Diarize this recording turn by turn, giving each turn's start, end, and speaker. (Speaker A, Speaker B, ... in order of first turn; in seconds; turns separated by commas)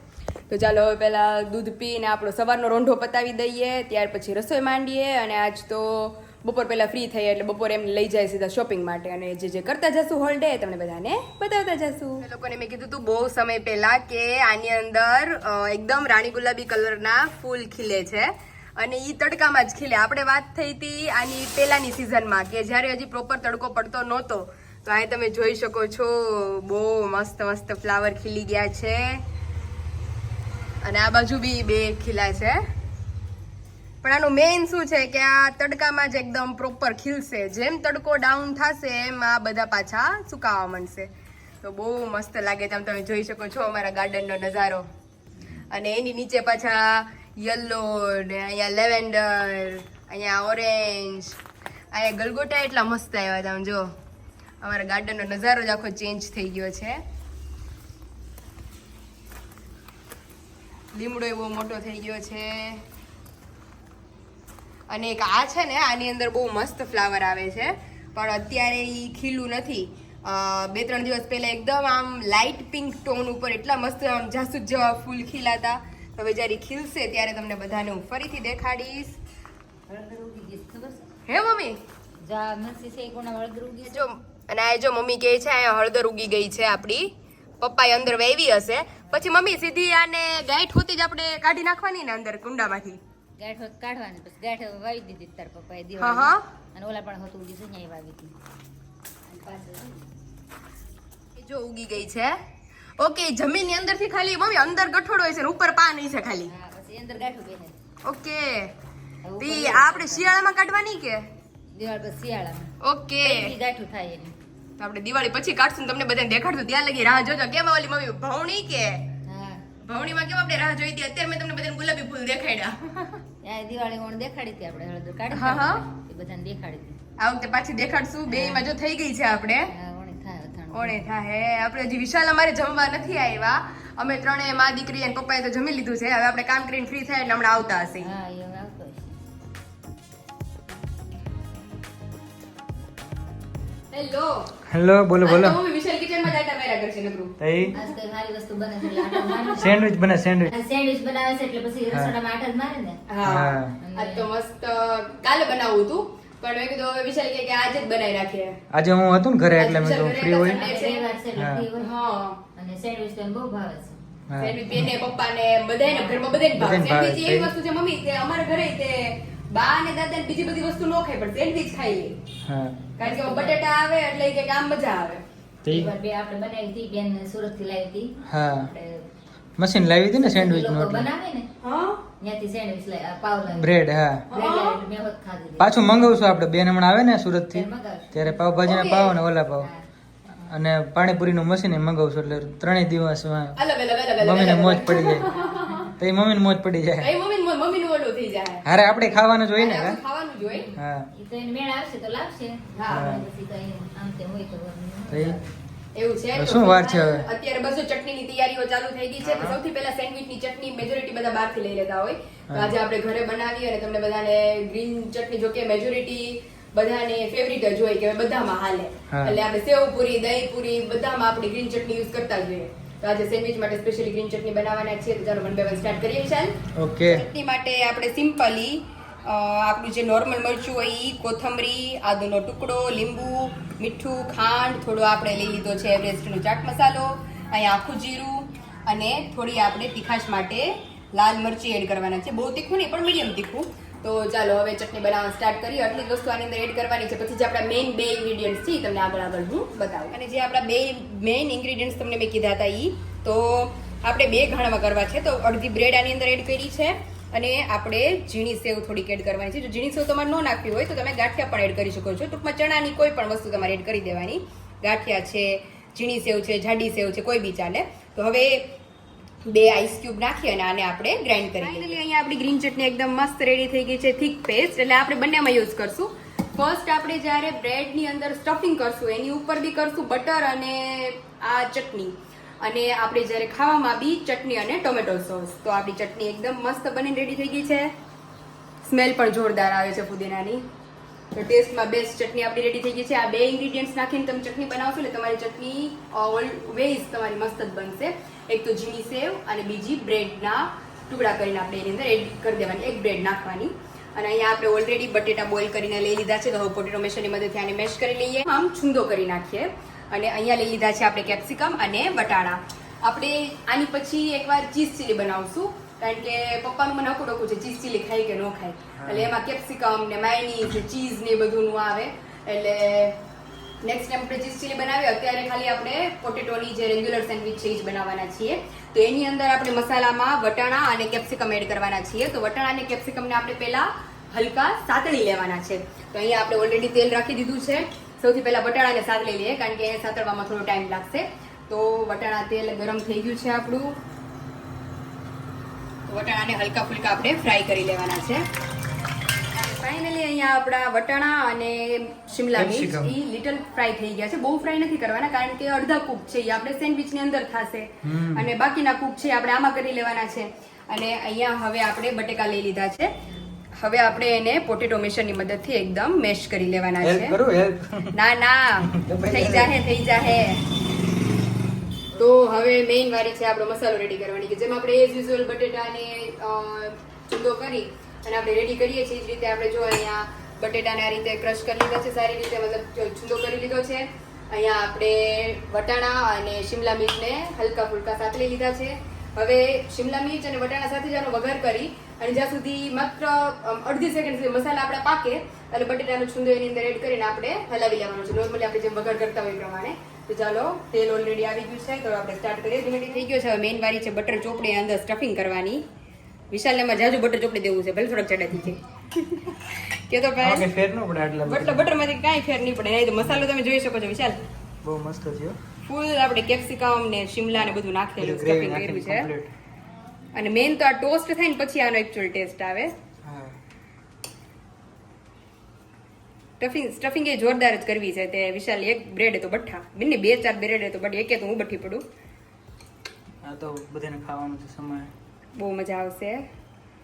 Speaker A: 0.5-29.2, Speaker A: 30.8-32.6, Speaker A: 34.0-41.1, Speaker A: 41.6-44.9, Speaker A: 45.7-51.4, Speaker A: 51.9-53.9, Speaker A: 54.6-57.0, Speaker A: 60.9-62.8, Speaker A: 64.9-79.2, Speaker B: 79.9-81.1, Speaker A: 81.3-81.8, Speaker B: 82.2-84.1, Speaker A: 83.9-93.0, Speaker B: 93.4-98.3, Speaker A: 96.0-96.4, Speaker B: 99.3-100.0, Speaker A: 101.4-102.3, Speaker A: 103.0-106.5, Speaker B: 106.5-107.8, Speaker A: 108.0-108.7, Speaker B: 109.2-110.3, Speaker A: 109.4-111.3, Speaker B: 111.8-112.7, Speaker A: 112.8-113.5, Speaker B: 113.2-114.3, Speaker A: 114.8-119.1, Speaker B: 119.3-119.7, Speaker A: 119.8-123.2, Speaker B: 123.4-127.0, Speaker A: 125.3-125.8, Speaker A: 127.2-129.7, Speaker B: 128.3-128.7, Speaker B: 129.7-131.1, Speaker A: 130.7-138.1, Speaker B: 138.0-139.2, Speaker A: 143.9-144.5, Speaker C: 144.7-145.6, Speaker A: 145.2-147.3, Speaker C: 147.4-147.8, Speaker B: 147.7-149.8, Speaker C: 149.6-150.5, Speaker B: 150.5-153.0, Speaker A: 153.1-158.6, Speaker C: 153.2-153.8, Speaker B: 153.8-154.3, Speaker C: 158.7-160.6, Speaker A: 159.6-161.1, Speaker B: 160.4-162.0, Speaker C: 161.3-161.7, Speaker A: 161.8-162.4, Speaker B: 162.6-164.0, Speaker C: 164.3-164.9, Speaker A: 164.4-172.2, Speaker C: 166.6-167.5, Speaker C: 172.5-172.9, Speaker A: 173.0-175.2, Speaker B: 173.0-173.6, Speaker C: 175.6-175.9, Speaker B: 175.7-179.0, Speaker C: 178.3-178.7, Speaker C: 179.6-181.1, Speaker B: 180.2-181.5, Speaker A: 181.6-182.0, Speaker B: 182.2-183.7, Speaker C: 183.6-184.2, Speaker B: 184.3-185.8, Speaker A: 184.3-184.8, Speaker C: 185.6-189.7, Speaker B: 187.5-188.4, Speaker A: 188.7-189.2, Speaker C: 190.5-193.6, Speaker A: 193.6-195.8, Speaker C: 194.2-195.3, Speaker B: 195.2-195.9, Speaker C: 196.0-197.1, Speaker A: 197.0-198.6, Speaker C: 198.7-200.0, Speaker A: 199.6-200.7, Speaker B: 200.4-205.5, Speaker C: 200.8-201.1, Speaker A: 202.7-203.1, Speaker C: 202.9-203.2, Speaker C: 205.1-205.4, Speaker A: 205.9-226.5, Speaker C: 206.3-207.3, Speaker C: 209.2-209.6, Speaker C: 212.5-212.8, Speaker C: 219.1-219.4, Speaker C: 226.8-227.3, Speaker A: 227.1-268.7, Speaker A: 269.5-287.9, Speaker A: 288.9-290.6, Speaker A: 291.3-323.2, Speaker C: 319.0-319.3, Speaker A: 323.8-344.0, Speaker A: 346.1-348.4, Speaker A: 349.6-363.1, Speaker C: 352.5-353.1, Speaker C: 358.0-358.5, Speaker A: 363.8-367.4, Speaker C: 367.0-368.2, Speaker A: 368.1-370.6, Speaker C: 368.9-369.7, Speaker A: 372.2-405.8, Speaker A: 406.5-410.7, Speaker C: 410.4-411.9, Speaker A: 411.5-414.4, Speaker C: 414.8-415.6, Speaker A: 415.9-419.3, Speaker C: 418.2-419.5, Speaker A: 420.3-422.9, Speaker C: 423.2-423.6, Speaker A: 426.6-432.0, Speaker C: 433.4-435.1, Speaker A: 435.6-436.4